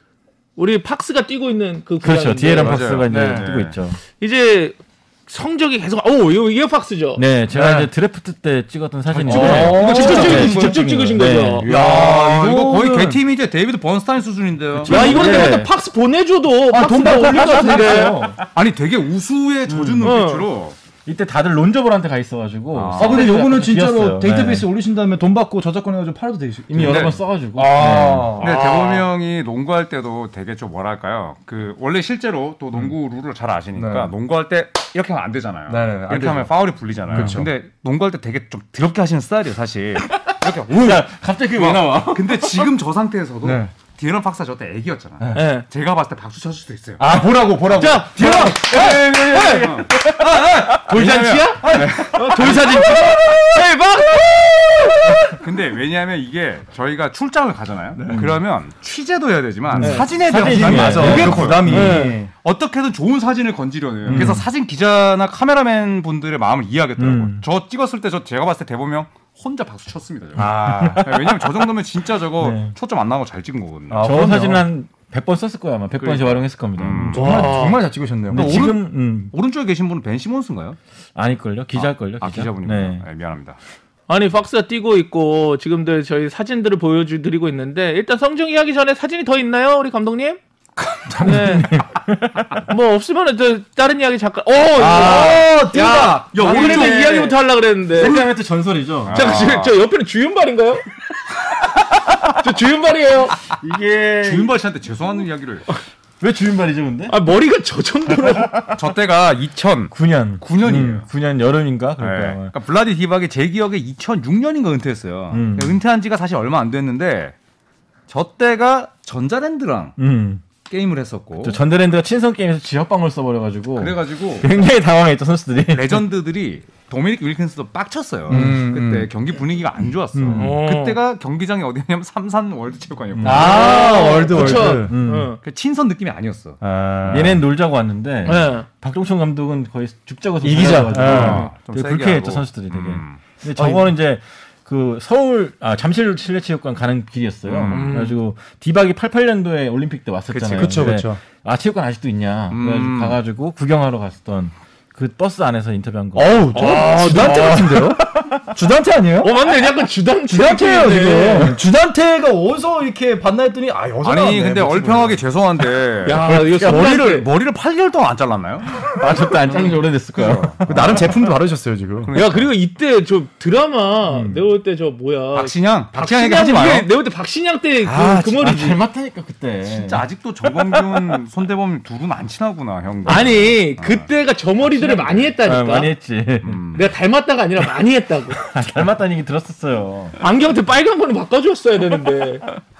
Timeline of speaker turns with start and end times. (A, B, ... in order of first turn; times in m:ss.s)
0:00.6-0:02.8 A
0:02.0-0:04.0 B
0:02.6-0:03.8 C
0:03.1-0:03.5 D
0:04.1-0:07.2 A
0:07.2-0:11.7 B
0:07.5-0:07.9 D
0:09.1-0:10.8 C
0:09.2-0:10.7 D
0:09.3-0:11.8 A
0:11.6-0:13.2 D
0:11.6-0:15.5 C
0:14.8-0:15.7 B
0:14.8-0:18.2 A
0:14.9-0:15.6 D
0:16.6-0:18.4 D
0:17.3-0:18.4 B
0:18.5-0:20.8 C
0:19.7-0:20.2 B
0:20.0-0:20.5 A
0:21.0-0:24.7 B
0:22.7-0:23.3 C
0:22.9-0:28.8 D
0:26.7-0:28.4 B
0:26.8-0:27.2 C
0:28.4-0:47.1 C
0:28.5-0:28.9 A
0:33.7-0:34.1 D
0:35.7-0:36.5 D
0:37.1-0:37.5 D
0:37.1-0:37.4 B
0:40.1-0:42.7 B
0:43.4-0:43.7 D
0:45.3-0:45.6 A
0:47.0-0:50.8 D
0:47.7-0:50.2 A
0:48.2-0:50.1 C
0:50.6-0:53.0 C
0:50.8-0:55.3 A
0:51.5-0:53.2 D
0:55.4-1:14.1 C
0:58.0-0:58.3 D
0:59.7-1:02.0 B
0:59.8-1:00.1 A
0:59.8-1:02.3 D
1:01.7-1:02.2 A
1:04.0-1:04.4 B
1:04.1-1:04.4 D
1:07.0-1:07.4 B
1:10.4-1:11.1 D
1:10.4-1:11.4 B
1:12.4-1:12.7 B
1:13.9-1:14.7 D
1:14.0-1:17.3 B
1:16.0-1:17.7 C
1:17.1-1:18.7 D
1:17.1-1:17.8 A
1:18.3-1:19.3 B
1:18.3-1:20.8 C
1:21.1-1:23.0 B
1:21.7-1:23.6 C
1:24.1-1:30.4 A
1:30.8-1:31.2 C
1:31.1-1:32.6 B
1:31.2-1:31.7 A
1:32.7-1:38.3 A
1:34.7-1:37.3 D
1:34.9-1:35.3 C
1:36.4-1:37.0 C
1:36.4-1:37.3 B
1:37.9-1:39.3 B
1:39.0-1:39.7 C
1:39.1-1:40.9 A
1:42.3-1:43.4 A
1:43.5-1:44.5 B
1:44.2-1:45.6 C
1:46.2-1:47.2 B
1:47.1-1:48.7 A
1:48.7-1:51.1 C
1:49.9-1:52.5 B
1:52.0-1:57.3 C
1:55.3-1:55.8 B
1:58.1-2:00.0 C
2:00.0-2:00.4 B
2:00.6-2:01.6 C
2:01.4-2:06.0 B
2:03.8-2:04.5 C
2:05.7-2:14.1 C
2:08.3-2:09.1 D
2:08.3-2:08.6 B
2:10.1-2:10.5 B
2:10.3-2:11.0 A
2:13.2-2:13.7 B
2:13.2-2:14.9 D
2:13.2-2:15.4 A
2:14.3-2:15.3 B
2:15.4-2:16.6 C
2:16.6-2:17.4 D
2:17.1-2:38.4 B
2:18.2-2:18.7 A
2:20.4-2:21.5 D
2:20.8-2:23.2 C
2:23.5-2:23.9 D
2:27.4-2:28.0 C
2:27.7-2:28.2 A
2:30.3-2:30.9 C
2:30.5-2:31.2 D
2:32.5-2:33.2 C
2:36.1-2:39.4 D
2:36.5-2:37.9 A
2:39.2-2:41.6 A
2:40.3-2:45.2 D
2:44.0-2:48.8 C
2:46.0-2:47.3 A
2:46.2-2:46.9 B
2:48.8-2:51.1 B
2:49.6-2:51.1 C
2:50.6-2:52.1 D
2:52.0-2:52.5 C
2:52.1-2:58.8 A
2:54.1-2:54.4 B
2:55.3-2:56.9 C
2:57.8-3:00.0 B
2:57.8-2:58.1 C
2:59.6-3:04.1 C
3:00.6-3:01.2 B
3:03.0-3:05.9 A
3:03.1-3:03.4 B
3:04.8-3:05.2 C
3:05.4-3:06.6 B
3:06.4-3:06.9 C
3:06.7-3:08.4 A
3:08.4-3:10.2 B
3:10.2-3:12.4 A